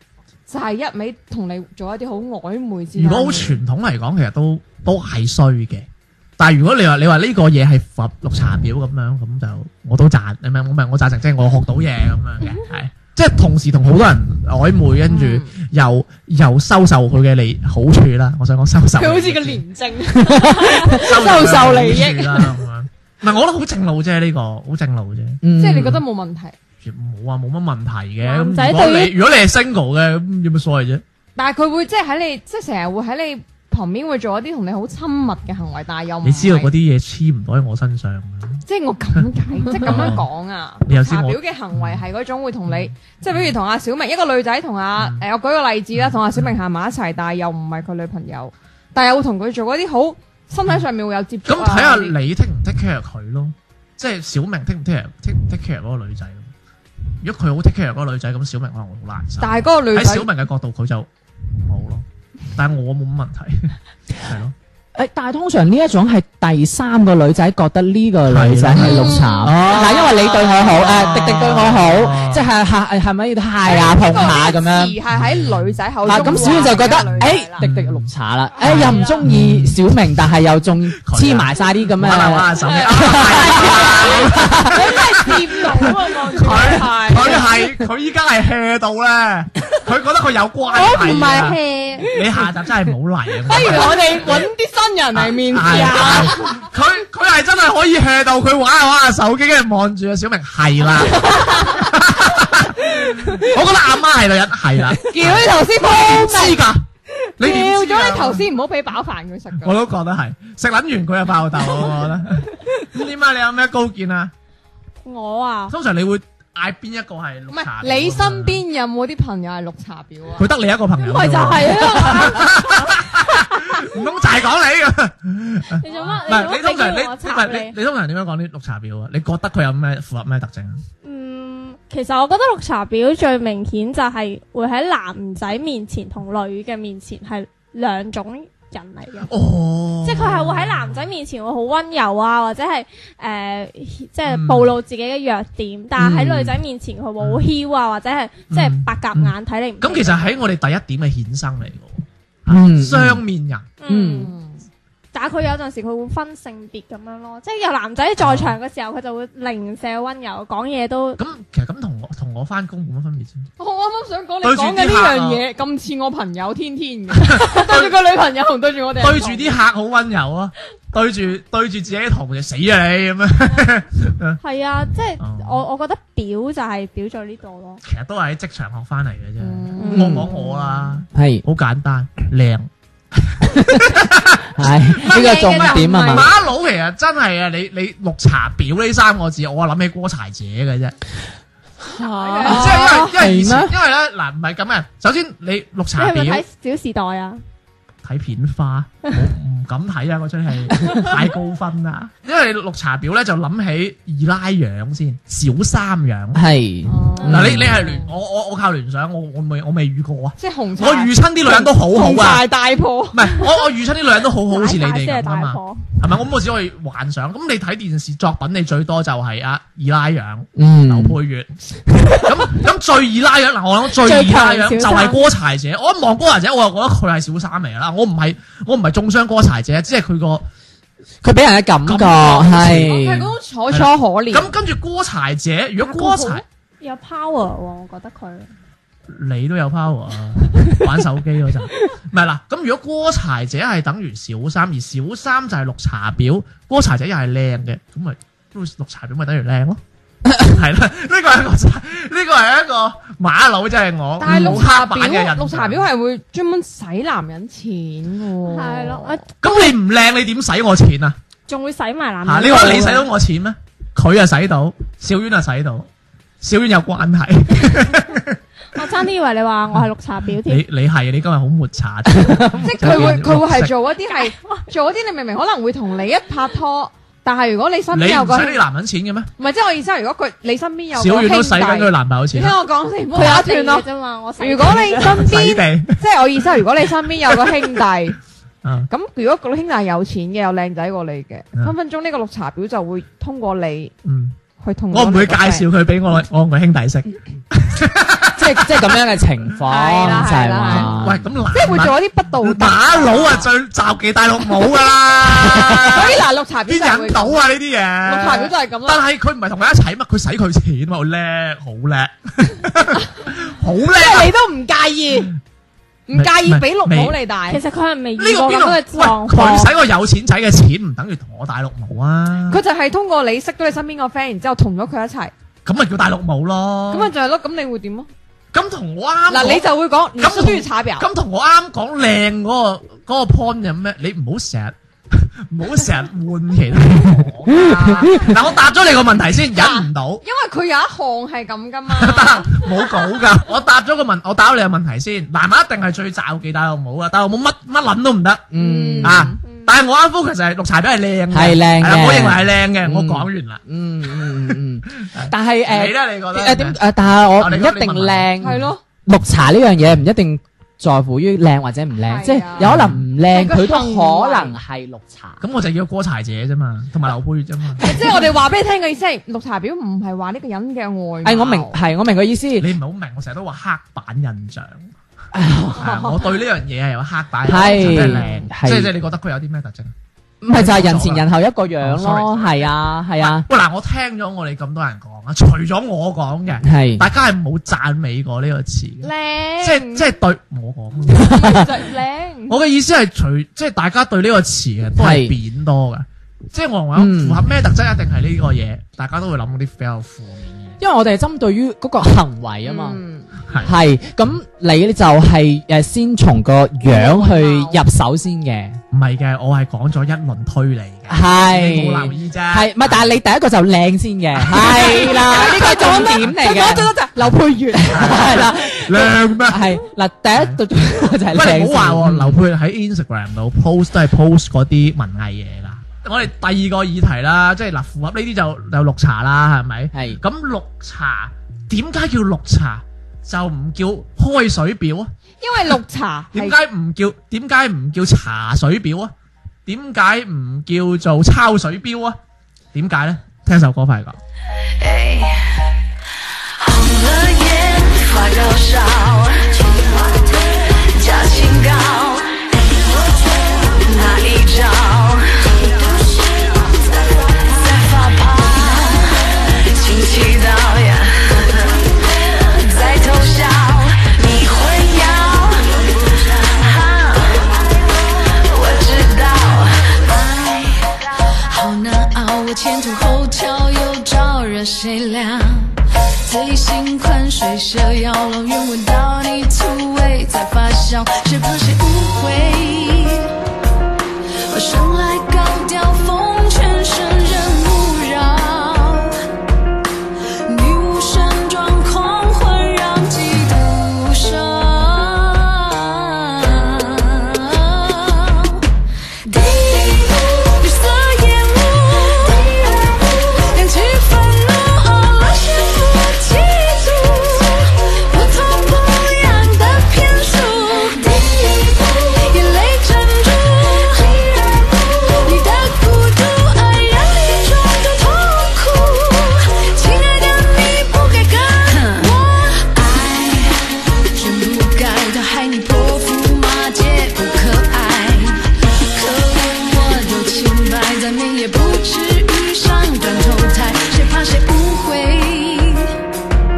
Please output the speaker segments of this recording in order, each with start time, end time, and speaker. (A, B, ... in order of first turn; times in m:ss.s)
0:00.5-0:03.6 A
0:03.0-0:19.6 B
0:15.1-0:15.5 A
0:19.0-0:22.6 A
0:20.2-0:21.0 C
0:20.9-0:25.4 B
0:25.4-0:26.0 C
0:25.6-0:26.6 A
0:26.8-0:31.0 B
0:28.2-0:29.1 D
0:31.4-0:36.7 A
0:36.2-0:38.6 B
0:38.6-0:52.1 A
0:39.8-0:40.3 B
0:40.8-0:42.0 B
0:42.7-0:43.5 B
0:45.0-0:45.2 B
0:46.0-0:46.6 B
0:51.4-0:56.5 B
0:57.2-1:04.5 B
0:59.4-1:00.3 A
1:04.9-1:15.0 C
1:08.2-1:12.4 B
1:08.7-1:11.7 A
1:13.6-1:17.6 A
1:15.1-1:16.4 B
1:16.0-1:24.9 C
1:17.6-1:18.1 B
1:18.6-1:19.8 B
1:18.7-1:19.2 A
1:21.0-1:34.5 B
1:22.6-1:27.6 A
1:30.7-1:32.5 A
1:33.4-1:36.6 A
1:35.1-1:46.8 B
1:41.2-1:41.8 A
1:42.8-1:43.5 A
1:45.0-1:49.8 A
1:47.4-1:48.5 B
1:49.6-1:54.3 B
1:55.0-1:55.8 D
1:55.7-1:58.6 B
1:57.5-2:00.5 A
2:00.4-2:10.8 B
2:01.0-2:03.8 D
2:05.8-2:07.8 D
2:05.8-2:06.2 A
2:11.0-2:19.3 D
2:19.3-2:21.1 B
2:20.0-2:30.3 D
2:24.3-2:24.7 B
2:26.0-2:26.5 C
2:27.2-2:27.5 B
2:28.5-2:33.7 B
2:32.5-2:33.2 C
2:33.8-2:34.3 D
2:33.9-2:34.3 C
2:34.2-2:34.6 A
2:35.1-2:41.2 D
2:38.2-2:38.6 B
2:41.2-2:43.5 B
2:43.6-2:49.6 A
2:44.4-2:45.4 B
2:47.1-2:48.0 B
2:49.0-2:54.4 B
2:54.4-2:57.8 D
2:55.2-2:55.6 B
2:57.8-3:11.0 B
2:59.4-3:01.0 A
2:59.8-3:00.2 D
2:59.9-3:00.2 C
3:01.1-3:01.4 C
3:03.5-3:03.9 C
3:04.5-3:06.3 C
3:05.0-3:06.3 A
3:12.0-3:12.8 D
3:12.2-3:13.1 A
3:12.2-3:13.7 C
3:12.4-3:16.4 B
3:16.0-3:17.4 D
3:18.0-3:26.4 B
3:26.3-3:27.7 C
3:26.8-3:28.1 A
3:27.2-3:27.4 D
3:27.3-3:32.4 B
3:30.4-3:33.5 A
3:33.1-3:41.5 B
3:34.5-3:35.9 D
3:40.6-3:41.2 C
3:42.1-3:50.5 B
3:44.0-3:45.2 D
3:51.2-3:53.3 C
3:51.8-3:53.0 B
3:52.6-3:54.5 A
3:53.7-3:56.4 B
3:55.8-3:58.5 D
3:59.1-4:09.8 B
4:10.3-4:15.9 B
4:14.2-4:19.2 A
4:14.3-4:14.6 C
4:18.5-4:19.2 D
4:19.4-4:21.2 B
4:21.5-4:23.1 D
4:22.2-4:25.9 B
4:26.4-4:28.8 B
4:28.7-4:30.6 D
4:29.7-4:33.7 B
4:32.2-4:32.5 C
4:32.6-4:38.6 A
4:34.0-4:34.6 D
4:37.9-4:39.3 B
4:39.4-4:43.8 A
4:40.9-4:42.6 B
4:43.1-4:45.2 D
4:44.4-4:48.2 A
4:44.6-4:46.6 B
4:47.2-4:47.7 B
4:48.6-4:48.9 B
4:48.9-4:53.9 A
4:54.0-4:54.4 B
4:54.6-4:55.7 A
4:54.9-4:58.9 B
4:58.3-5:01.2 C
4:59.6-5:00.9 A
5:00.6-5:14.3 B
5:01.5-5:03.5 A
5:05.1-5:07.4 A
5:08.0-5:09.0 A
5:13.8-5:15.3 A
5:16.1-5:17.6 A
5:16.1-5:17.2 B
5:17.5-5:19.7 D
5:18.2-5:22.6 B
5:22.5-5:25.3 A
5:25.6-5:27.1 B
5:26.9-5:28.1 A
5:28.5-5:40.2 B
5:29.3-5:31.1 A
5:37.5-5:38.4 A
5:39.5-5:43.1 A
5:41.9-5:48.5 B
5:48.5-5:49.3 C
5:48.6-5:49.4 A
5:49.0-5:58.6 B
5:49.5-5:49.7 D
5:51.3-6:05.4 C
5:58.4-5:58.8 A
6:02.0-6:04.6 A
6:02.6-6:03.0 B
6:05.4-6:07.9 B
6:07.8-6:11.8 A
6:11.2-6:12.7 C
6:12.6-6:14.9 B
6:15.3-6:16.2 C
6:15.7-6:19.9 B
6:17.4-6:18.9 C
6:17.7-6:18.4 A
6:20.4-6:23.5 C
6:20.5-6:21.3 B
6:21.8-6:31.6 B
6:26.6-6:27.1 C
6:29.0-6:30.1 A
6:31.1-6:31.6 C
6:31.1-6:32.6 A
6:32.5-6:40.8 B
6:35.0-6:35.3 C
6:36.9-6:37.4 C
6:40.8-6:43.0 C
6:42.6-6:43.3 A
6:43.6-6:48.8 C
6:46.8-6:47.8 A
6:48.9-6:53.2 B
6:51.1-6:56.9 C
6:54.5-6:58.4 A
6:57.7-7:02.4 C
6:57.9-7:15.1 B
7:09.9-7:10.2 C
7:15.4-7:16.6 A
7:16.3-7:19.1 B
7:19.6-7:22.2 B
7:22.7-7:24.2 B
7:24.8-7:25.5 E
7:26.6-7:30.4 E
7:30.9-7:36.0 E
7:37.5-7:39.1 E
7:39.7-7:41.8 E
7:42.4-7:47.6 E
7:48.4-7:49.9 E
7:50.0-7:50.9 F
7:51.4-8:03.3 F
8:04.5-8:09.2 F
8:10.4-8:18.6 F
8:19.2-8:55.9 F